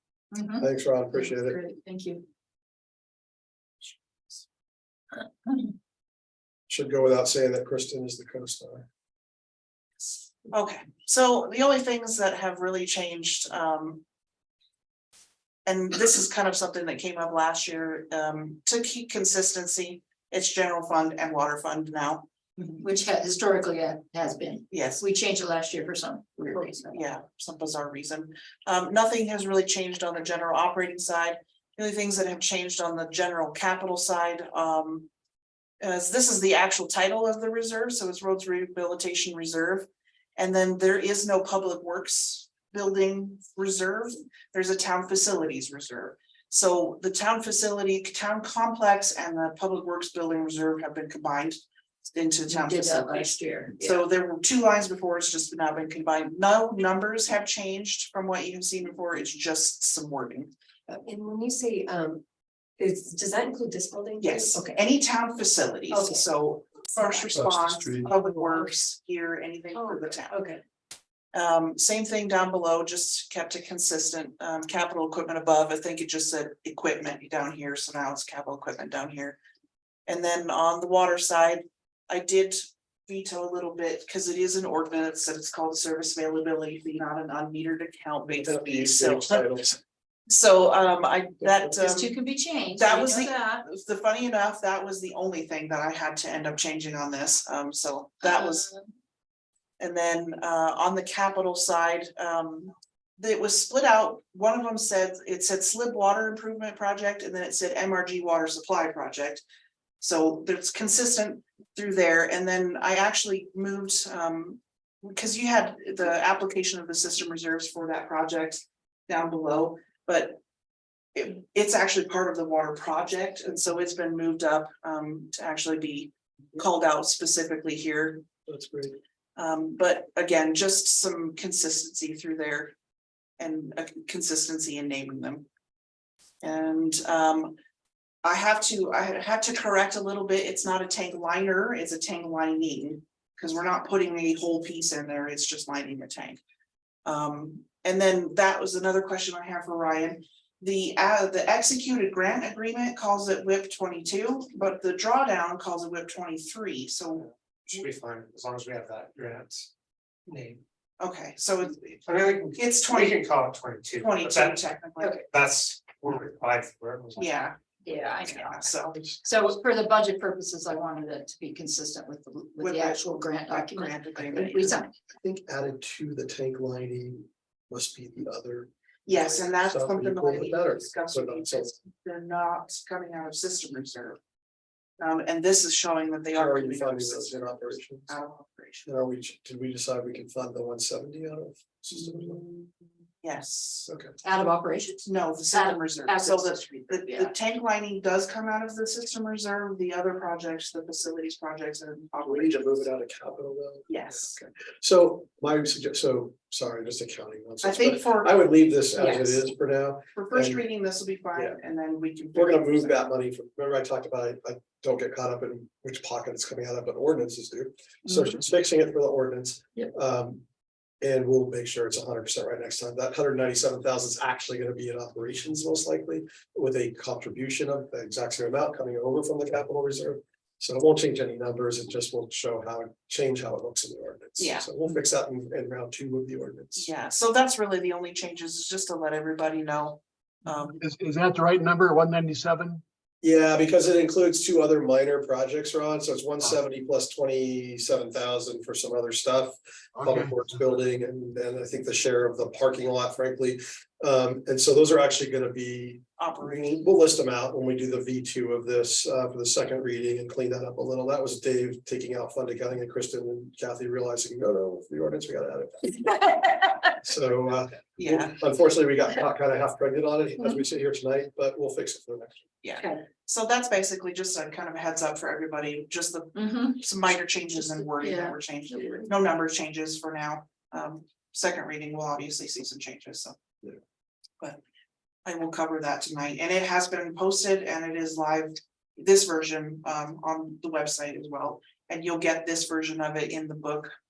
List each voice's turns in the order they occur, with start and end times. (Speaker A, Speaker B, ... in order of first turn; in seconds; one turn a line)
Speaker A: 0.3-2.2
Speaker B: 0.6-1.6
Speaker B: 6.7-8.8
Speaker C: 10.0-14.0
Speaker C: 15.7-22.3
Speaker A: 22.8-27.0
Speaker C: 24.7-25.0
Speaker C: 26.8-35.1
Speaker C: 35.8-51.6
Speaker C: 52.1-60.5
Speaker A: 52.5-54.0
Speaker D: 60.9-62.2
Speaker D: 62.8-64.8
Speaker C: 64.2-70.4
Speaker D: 65.9-66.2
Speaker B: 67.3-68.1
Speaker D: 69.8-70.6
Speaker C: 71.3-79.4
Speaker C: 80.1-89.5
Speaker B: 88.2-89.8
Speaker C: 90.3-92.2
Speaker A: 91.8-93.6
Speaker C: 92.7-98.7
Speaker A: 98.4-98.8
Speaker C: 99.8-109.4
Speaker C: 110.0-120.4
Speaker C: 121.1-128.2
Speaker B: 128.5-129.0
Speaker C: 129.3-132.7
Speaker C: 133.4-135.4
Speaker C: 136.4-137.5
Speaker C: 138.2-146.4
Speaker C: 147.0-157.3
Speaker E: 157.2-159.7
Speaker E: 160.3-160.6
Speaker C: 161.0-163.2
Speaker E: 162.1-164.7
Speaker C: 164.0-165.1
Speaker E: 165.2-167.4
Speaker C: 167.2-167.6
Speaker A: 167.8-168.7
Speaker C: 168.2-169.0
Speaker B: 168.9-169.2
Speaker A: 169.2-174.9
Speaker C: 172.6-174.8
Speaker B: 175.1-181.7
Speaker C: 179.1-184.2
Speaker C: 185.0-189.0
Speaker B: 186.3-188.1
Speaker B: 188.8-192.4
Speaker C: 191.9-192.6
Speaker C: 193.2-193.9
Speaker B: 193.8-194.1
Speaker A: 194.2-197.3
Speaker C: 195.0-202.9
Speaker B: 202.2-210.6
Speaker C: 203.9-204.4
Speaker C: 207.6-208.5
Speaker A: 209.0-209.4
Speaker C: 210.1-213.0
Speaker B: 212.3-220.4
Speaker A: 218.1-218.4
Speaker B: 221.0-236.9
Speaker C: 234.4-234.7
Speaker C: 236.8-240.8
Speaker F: 240.8-242.8
Speaker B: 243.2-266.1
Speaker F: 250.0-250.3
Speaker C: 256.2-256.9
Speaker B: 266.9-272.4
Speaker C: 268.0-268.4
Speaker C: 272.6-283.4
Speaker A: 276.3-276.8
Speaker A: 278.0-279.0
Speaker C: 285.2-293.9